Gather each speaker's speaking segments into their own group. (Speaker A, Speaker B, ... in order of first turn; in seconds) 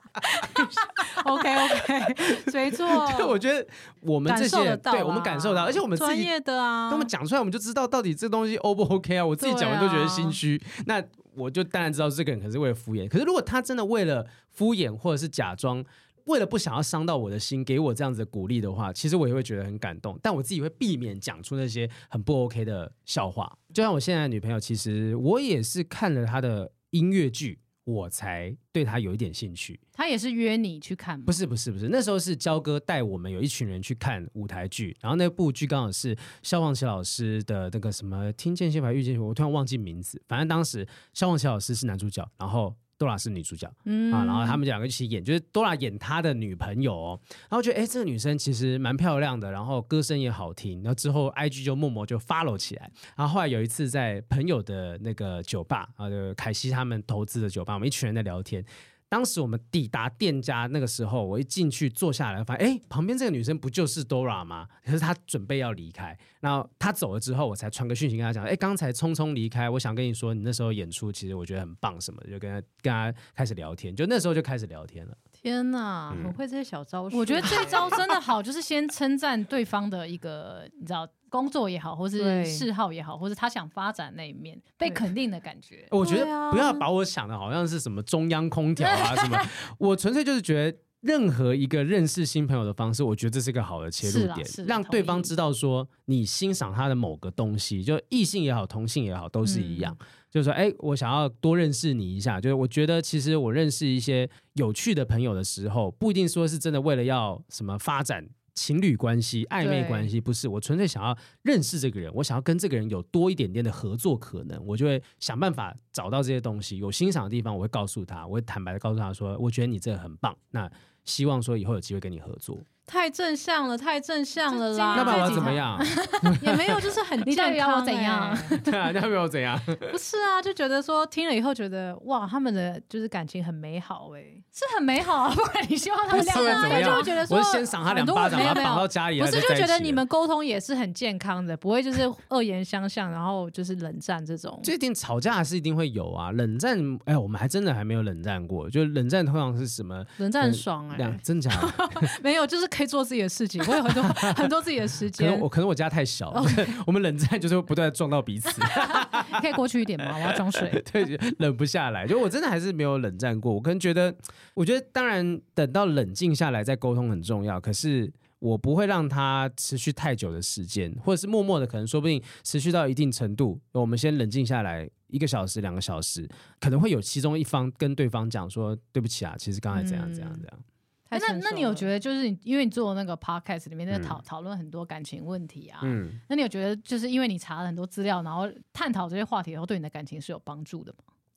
Speaker A: 0.3-3.4, 4.2-7.1, 9.4-10.4, 43.9-44.6, 75.4-78.0, 82.2-82.7, 86.0-86.8, 99.4-99.9, 109.6-110.1, 122.9-125.8, 126.3-128.6, 129.9-134.4, 136.1-144.7, 150.2-155.4, 156.3-156.7, 179.7-180.4, 181.1-181.9
Speaker B: 1.6-6.3, 6.9-29.8, 31.3-75.2, 76.1-76.3, 85.9-122.6, 124.9-126.9, 128.6-130.0, 136.1-140.0, 144.6-152.1, 153.8-154.5, 155.1-159.4, 160.2-180.6, 183.9-184.2, 185.8-186.2
Speaker C: 29.9-31.4, 77.1-85.9, 88.8-89.5, 94.0-95.3, 124.5-126.5, 127.2-128.7, 134.5-137.2, 158.7-160.8, 181.1-191.0